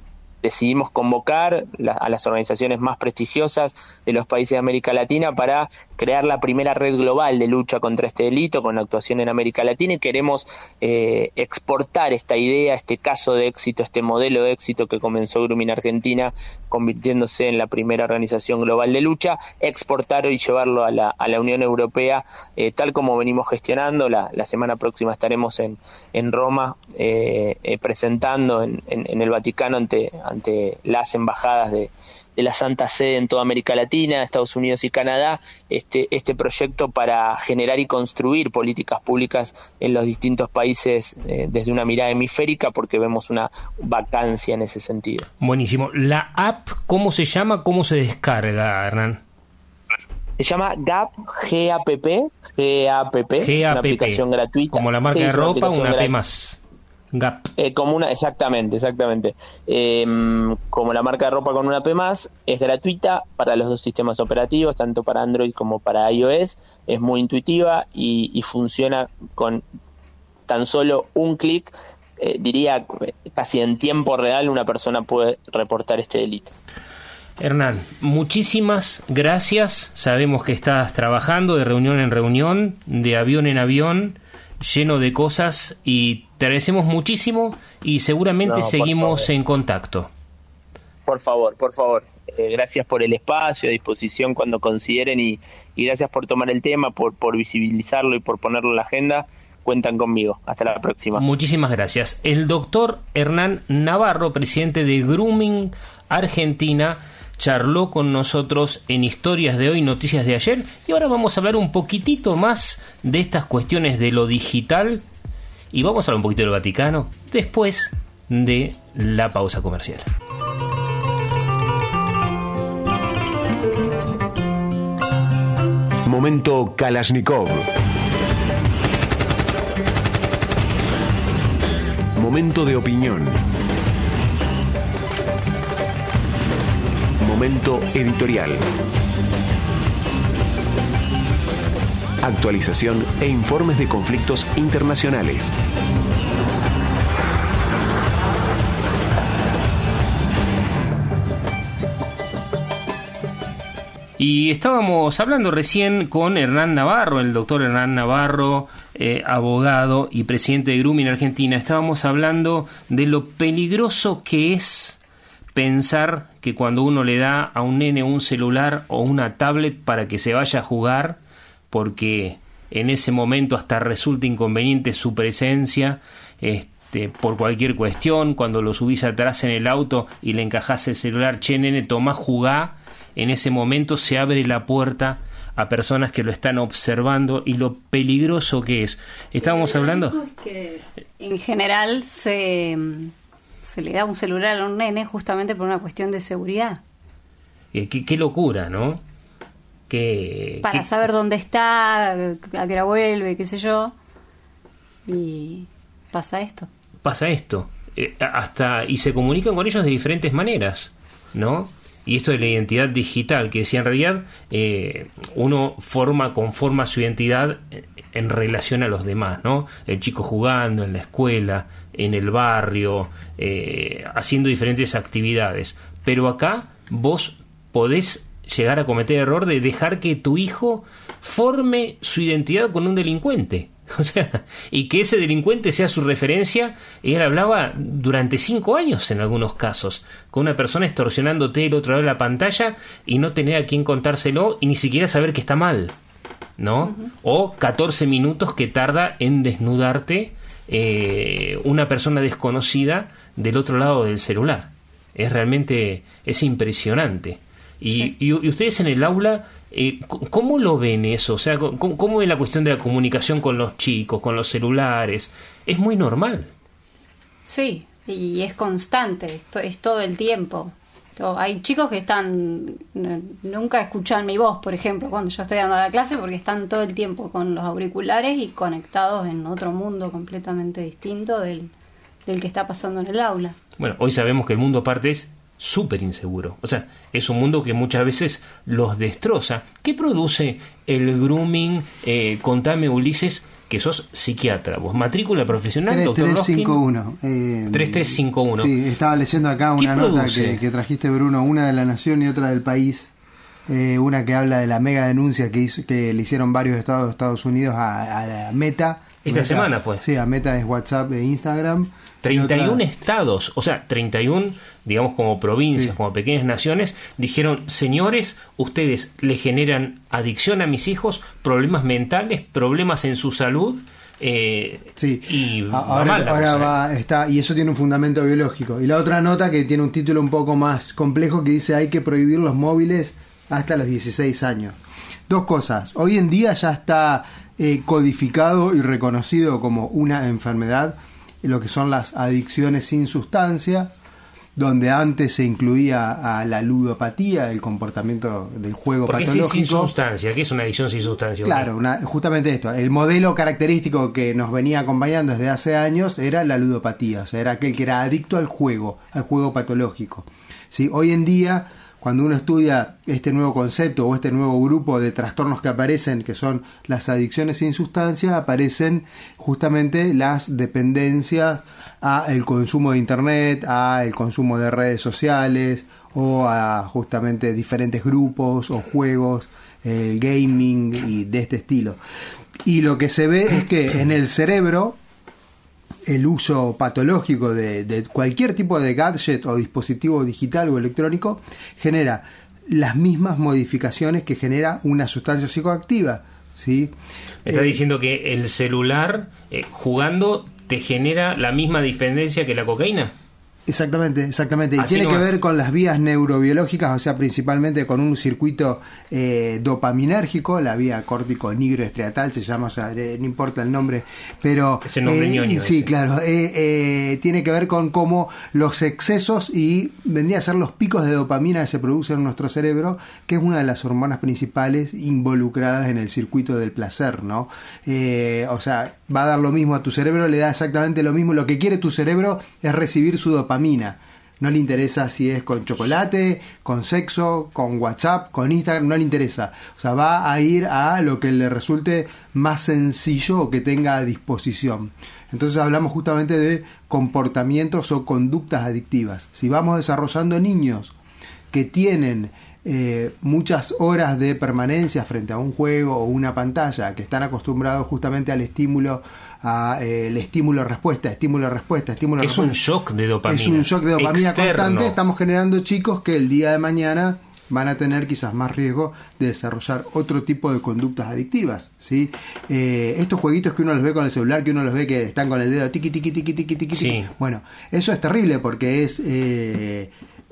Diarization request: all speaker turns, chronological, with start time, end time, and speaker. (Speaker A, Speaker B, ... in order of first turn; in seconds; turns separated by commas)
Speaker A: 0.4-45.3, Speaker B: 45.4-49.2, Speaker A: 50.4-56.1, Speaker B: 53.4-56.6, Speaker B: 57.1-57.4, Speaker A: 57.6-69.6, Speaker A: 70.5-76.5, Speaker B: 77.4-90.1, Speaker A: 88.4-89.3, Speaker A: 91.0-101.2, Speaker B: 101.1-115.0, Speaker B: 115.7-120.1, Speaker C: 126.0-127.7, Speaker C: 132.2-133.4, Speaker C: 137.2-138.6, Speaker C: 142.2-145.5, Speaker B: 154.2-165.0, Speaker B: 165.5-171.2, Speaker B: 171.7-190.2, Speaker D: 189.6-196.8, Speaker B: 197.7-199.0, Speaker B: 199.9-200.9, Speaker D: 200.6-203.9, Speaker D: 205.1-206.7, Speaker B: 207.0-245.9, Speaker B: 246.6-266.5, Speaker D: 267.4-281.7, Speaker D: 282.2-283.6, Speaker B: 283.8-296.8, Speaker E: 295.9-303.1, Speaker B: 297.7-298.7, Speaker B: 299.8-300.6, Speaker E: 303.7-312.8, Speaker B: 309.2-310.0, Speaker B: 312.2-326.8, Speaker E: 325.0-334.8, Speaker E: 335.3-343.9, Speaker E: 344.6-349.9, Speaker B: 349.1-351.7, Speaker E: 351.4-382.0, Speaker E: 382.6-385.0, Speaker E: 386.1-396.9, Speaker B: 397.4-403.1, Speaker E: 397.5-397.8, Speaker E: 403.7-450.9, Speaker B: 404.8-405.4, Speaker B: 414.8-415.9, Speaker E: 451.5-462.6, Speaker B: 462.2-465.0, Speaker E: 463.2-479.9, Speaker B: 476.7-477.1